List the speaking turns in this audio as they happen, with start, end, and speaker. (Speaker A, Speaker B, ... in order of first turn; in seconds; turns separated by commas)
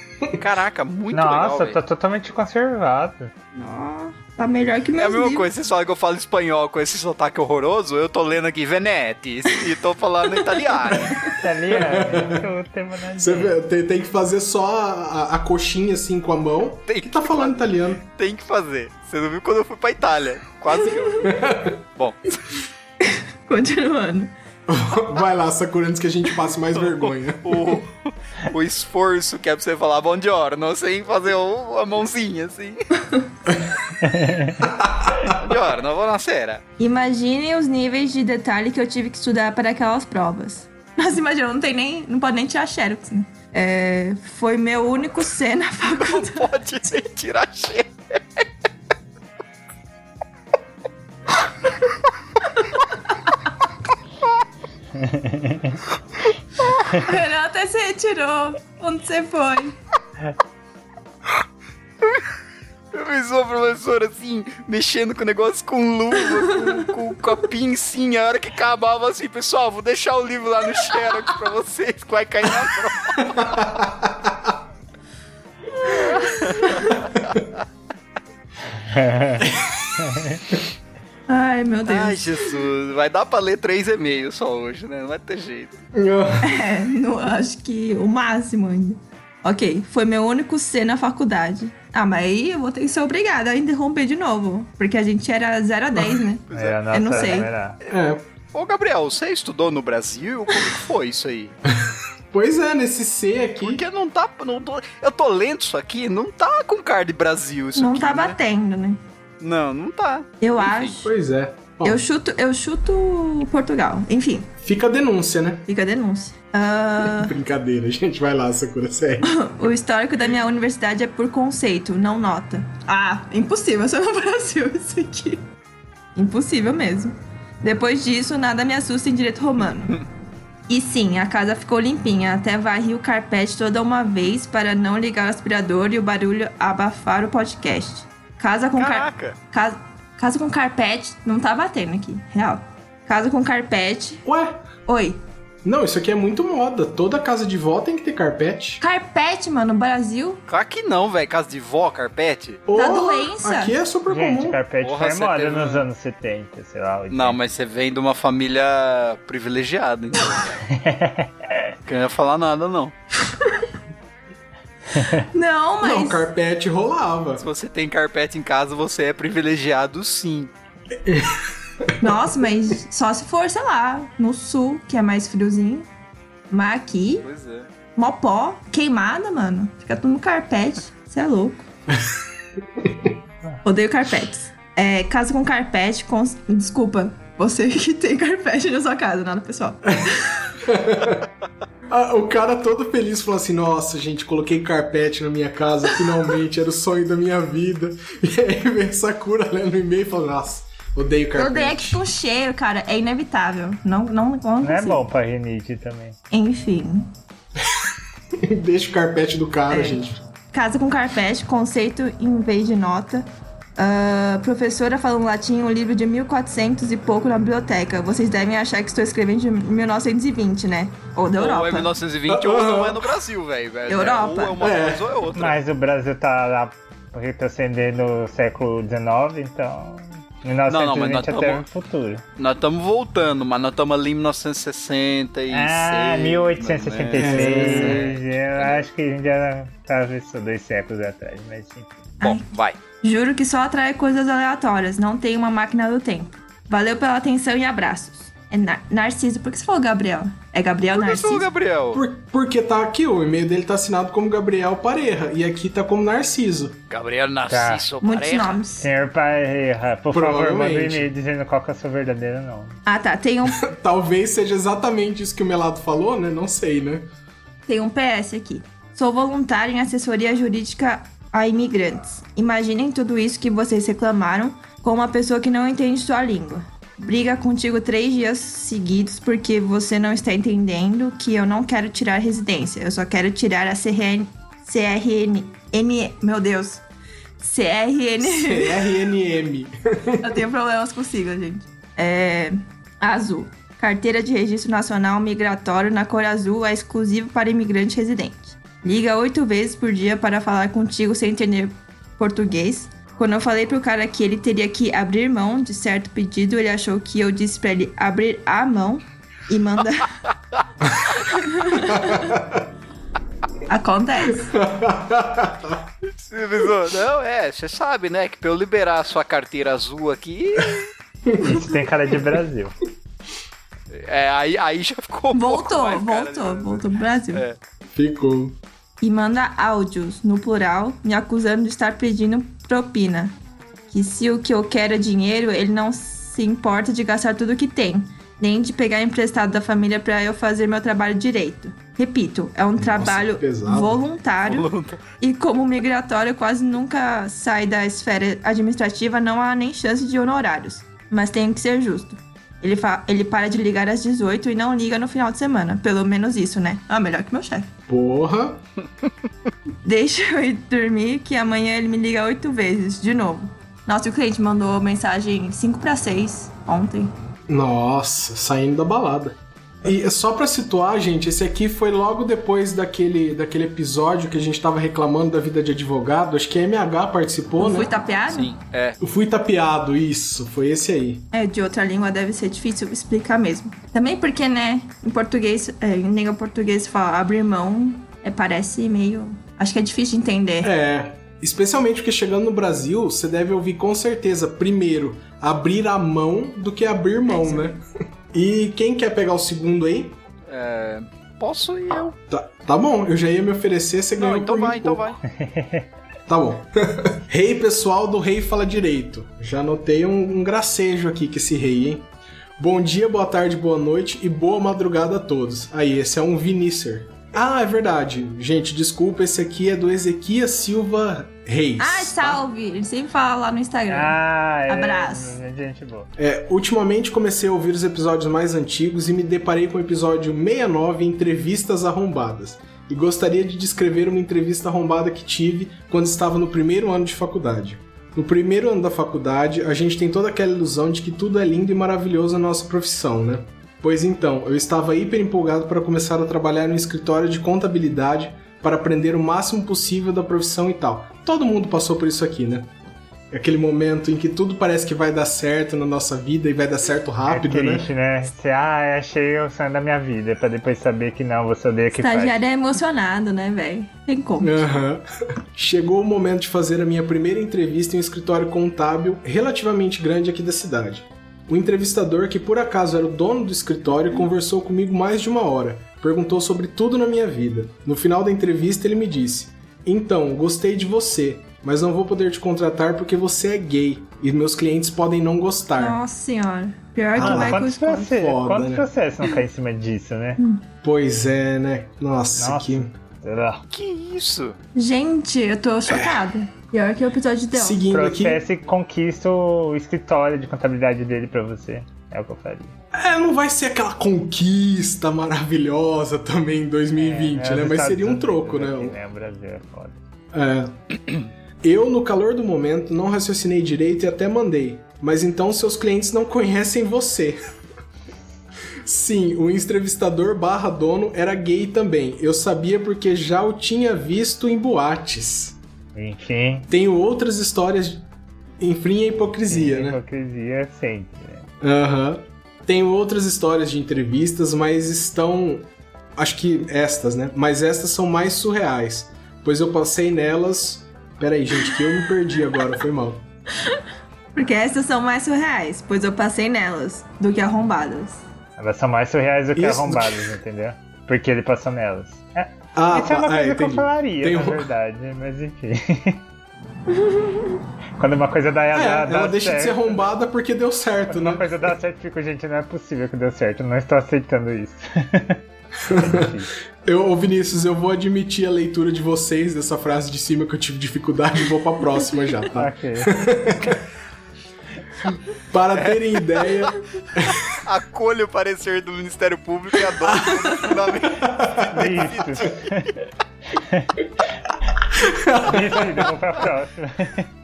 Speaker A: 0.3-1.8, Speaker B: 1.1-3.3, Speaker C: 3.5-5.5, Speaker A: 5.0-11.3, Speaker C: 10.4-11.3, Speaker D: 10.9-12.4, Speaker B: 11.4-13.6, Speaker D: 13.2-18.0, Speaker A: 16.9-22.5, Speaker C: 20.8-21.3, Speaker D: 21.2-21.8, Speaker C: 23.0-24.3, Speaker D: 24.7-27.8, Speaker A: 26.7-32.8, Speaker C: 33.0-33.3, Speaker B: 34.0-34.7, Speaker D: 34.6-35.4, Speaker A: 35.2-36.6, Speaker C: 36.8-46.5, Speaker A: 45.9-48.4, Speaker B: 54.9-55.8, Speaker C: 56.9-59.7, Speaker A: 62.9-73.8, Speaker C: 66.4-66.8, Speaker D: 73.4-74.5, Speaker C: 75.8-77.0, Speaker A: 75.8-77.6, Speaker B: 78.8-80.5, Speaker D: 79.4-79.9, Speaker C: 81.3-82.7, Speaker A: 81.8-85.8, Speaker D: 85.9-86.7, Speaker C: 86.4-97.5, Speaker A: 96.5-97.4, Speaker B: 96.5-97.8, Speaker D: 97.9-98.2, Speaker A: 98.5-101.5, Speaker D: 101.7-103.8, Speaker A: 103.6-108.4, Speaker C: 107.8-109.0, Speaker A: 109.4-110.9, Speaker C: 110.4-111.1, Speaker D: 111.0-112.0, Speaker C: 111.8-114.5, Speaker D: 114.6-115.7, Speaker C: 115.7-117.3, Speaker D: 117.0-119.3, Speaker C: 119.2-125.4, Speaker C: 126.1-130.0, Speaker C: 130.7-144.2, Speaker A: 138.7-139.3, Speaker D: 144.2-144.6, Speaker C: 144.8-145.2, Speaker D: 145.6-148.8, Speaker C: 148.8-150.4, Speaker A: 150.5-152.6, Speaker D: 152.7-154.6, Speaker C: 152.7-153.8, Speaker B: 154.1-157.4, Speaker A: 154.8-155.8, Speaker A: 157.1-160.6, Speaker B: 160.6-161.7, Speaker A: 161.9-162.9, Speaker C: 163.3-163.7, Speaker B: 164.9-165.2, Speaker C: 165.3-166.2, Speaker D: 165.8-167.4, Speaker A: 167.4-170.5, Speaker D: 171.0-172.0, Speaker C: 172.0-175.9, Speaker C: 176.5-177.2, Speaker A: 177.2-177.7, Speaker C: 177.9-181.6, Speaker D: 181.9-182.2, Speaker D: 182.8-183.1, Speaker C: 183.6-190.5, Speaker D: 189.9-191.2, Speaker D: 191.9-202.0, Speaker C: 201.3-205.0, Speaker B: 204.6-206.2, Speaker C: 206.3-207.1, Speaker D: 207.6-210.2, Speaker C: 209.7-213.2, Speaker C: 213.8-221.9, Speaker A: 221.3-225.6, Speaker D: 222.3-223.1, Speaker C: 223.9-224.6, Speaker D: 224.6-225.1, Speaker B: 225.3-232.2, Speaker A: 230.7-231.6, Speaker A: 232.4-238.8, Speaker B: 235.5-242.0, Speaker D: 237.1-238.0, Speaker C: 242.2-242.4, Speaker A: 242.2-242.8, Speaker C: 243.0-251.5, Speaker A: 250.9-252.0, Speaker D: 251.9-256.8, Speaker A: 256.9-258.6, Speaker B: 257.5-257.9, Speaker C: 258.0-258.9, Speaker B: 258.8-262.8, Speaker D: 260.1-261.1, Speaker C: 262.9-263.7, Speaker D: 263.5-267.1, Speaker C: 267.7-286.8, Speaker C: 287.4-288.8, Speaker D: 288.2-290.4, Speaker C: 290.2-310.2, Speaker C: 311.1-312.4, Speaker D: 311.8-312.6, Speaker C: 313.7-314.6, Speaker D: 314.5-315.8, Speaker A: 316.1-320.9, Speaker D: 321.2-321.6, Speaker B: 321.4-322.8, Speaker A: 323.9-327.6, Speaker C: 325.3-327.4, Speaker D: 327.9-328.6, Speaker C: 329.0-333.3, Speaker C: 333.9-344.7, Speaker D: 342.8-344.0, Speaker A: 344.4-345.0, Speaker C: 345.2-357.7, Speaker D: 357.9-358.6, Speaker C: 359.8-367.1, Speaker D: 367.5-377.9, Speaker C: 377.6-378.5, Speaker A: 378.3-379.0, Speaker D: 379.0-381.3, Speaker C: 381.3-390.7, Speaker D: 390.6-400.2, Speaker C: 397.3-397.8, Speaker A: 400.5-402.1, Speaker D: 402.3-405.1, Speaker A: 404.2-405.2, Speaker B: 405.3-405.9, Speaker D: 406.3-422.4, Speaker C: 421.8-425.4, Speaker B: 423.9-426.1, Speaker D: 426.2-452.7, Speaker D: 453.3-457.9, Speaker B: 457.3-462.4, Speaker C: 461.9-464.7, Speaker D: 464.4-465.0, Speaker D: 465.5-486.0, Speaker C: 485.8-488.1, Speaker D: 487.1-488.9, Speaker B: 487.1-490.4, Speaker C: 490.4-490.6, Speaker D: 490.8-492.9, Speaker B: 492.4-493.6, Speaker A: 493.7-494.6, Speaker C: 494.7-497.8, Speaker D: 497.5-498.4, Speaker B: 497.9-502.7, Speaker D: 502.9-509.0, Speaker B: 506.9-510.0, Speaker D: 510.3-510.7, Speaker D: 511.6-517.4, Speaker D: 518.8-525.6, Speaker B: 525.9-526.7, Speaker D: 526.7-528.0, Speaker D: 528.6-530.0, Speaker B: 529.5-531.5, Speaker D: 531.6-543.2, Speaker C: 543.6-543.8, Speaker C: 544.3-548.2, Speaker B: 548.6-556.2, Speaker D: 549.5-550.3, Speaker D: 552.7-554.7, Speaker C: 556.9-557.6, Speaker B: 558.0-560.0, Speaker D: 558.7-561.5, Speaker B: 561.1-565.4, Speaker D: 565.9-566.3, Speaker B: 565.9-566.5, Speaker D: 566.8-573.8, Speaker B: 572.5-573.2, Speaker D: 575.1-577.4, Speaker A: 575.7-582.6, Speaker D: 580.0-580.4, Speaker C: 580.2-580.6, Speaker D: 581.0-581.7, Speaker B: 581.7-584.0, Speaker D: 584.9-586.1, Speaker B: 585.4-587.3